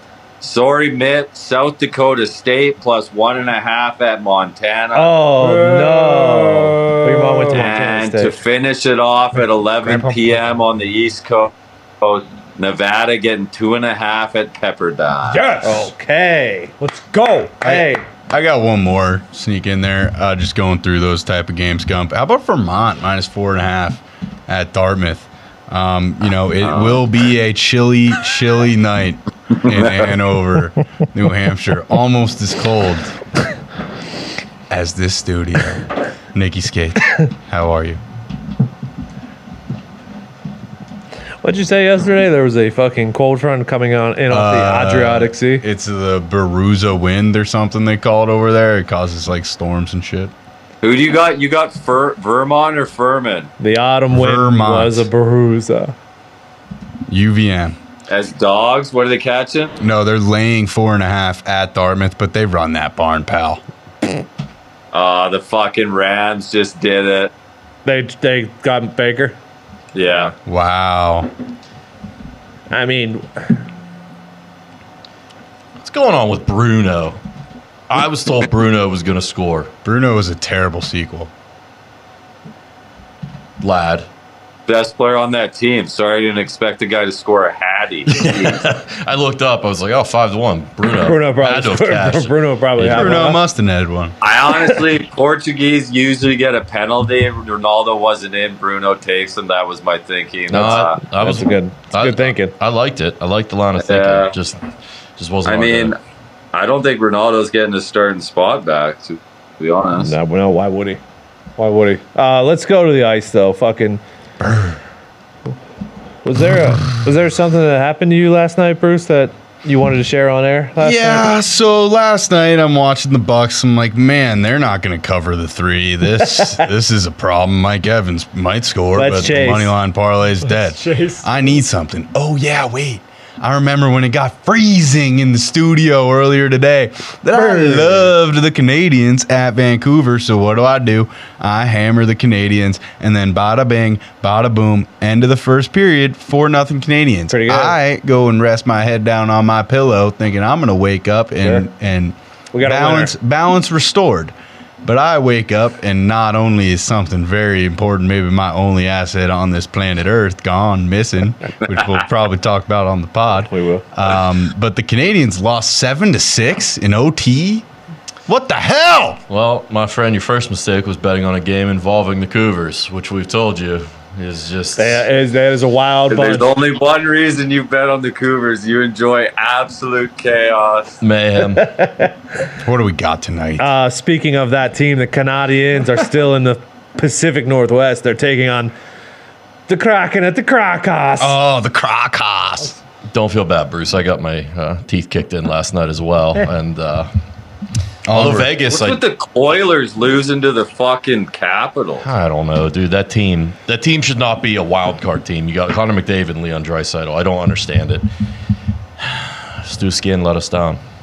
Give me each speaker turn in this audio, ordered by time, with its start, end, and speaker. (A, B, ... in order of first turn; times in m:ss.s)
0:00.4-0:05.1 A
0:04.9-0:08.4 B
0:05.4-0:07.6 C
0:07.5-0:15.5 A
0:09.8-0:10.4 C
0:15.3-0:15.9 C
0:15.6-0:16.7 B
0:16.8-0:17.5 C
0:17.6-0:33.1 D
0:17.6-0:18.0 B
0:26.6-0:27.0 A
0:29.5-0:30.1 A
0:34.7-0:38.0 D
0:41.4-0:45.6 B
0:44.3-0:50.3 D
0:50.8-0:53.5 A
0:53.6-0:55.9 B
0:54.1-0:55.1 D
0:57.1-0:57.8 D
0:58.1-0:59.7 A
0:59.8-1:03.6 D
1:04.9-1:07.3 A
1:07.8-1:09.4 B
1:09.9-1:10.3 A
1:10.0-1:10.3 B
1:10.4-1:11.3 D
1:12.7-1:13.5 B
1:15.8-1:17.2 E
1:17.9-1:19.7 E
1:19.8-1:21.3 D
1:23.6-1:24.1 E
1:24.7-1:28.6 A
1:28.1-1:33.2 E
1:30.9-1:33.4 B
1:32.8-1:34.1 D
1:34.2-1:41.0 A
1:40.5-1:44.6 E
1:40.5-1:42.5 B
1:43.8-1:44.3 A
1:45.2-1:45.9 E
1:45.4-1:46.0 A
1:46.5-1:50.1 A
1:50.0-1:51.0 B
1:51.6-1:54.0 B
1:54.4-1:54.8 D
1:56.2-2:01.3 B
2:00.8-2:47.6 D
2:08.9-2:09.7 B
2:10.5-2:11.3 C
2:17.3-2:18.1 B
2:27.3-2:27.8 B
2:31.4-2:31.7 B
2:32.5-2:33.1 B
2:43.4-2:43.8 B
2:48.3-2:49.2 D
2:49.3-2:55.1 E
2:54.8-2:56.5 B
2:56.1-3:01.0 A
3:01.0-3:01.7 E
3:01.6-3:02.1 B
3:02.6-3:03.7 D
3:03.6-3:08.7 B
3:09.7-3:11.4 B
3:11.2-3:12.8 D
3:13.1-3:17.1 E
3:18.0-3:18.5 D
3:18.1-3:19.0 E
3:18.7-3:22.1 A
3:22.0-3:28.1 E
3:29.0-3:30.8 E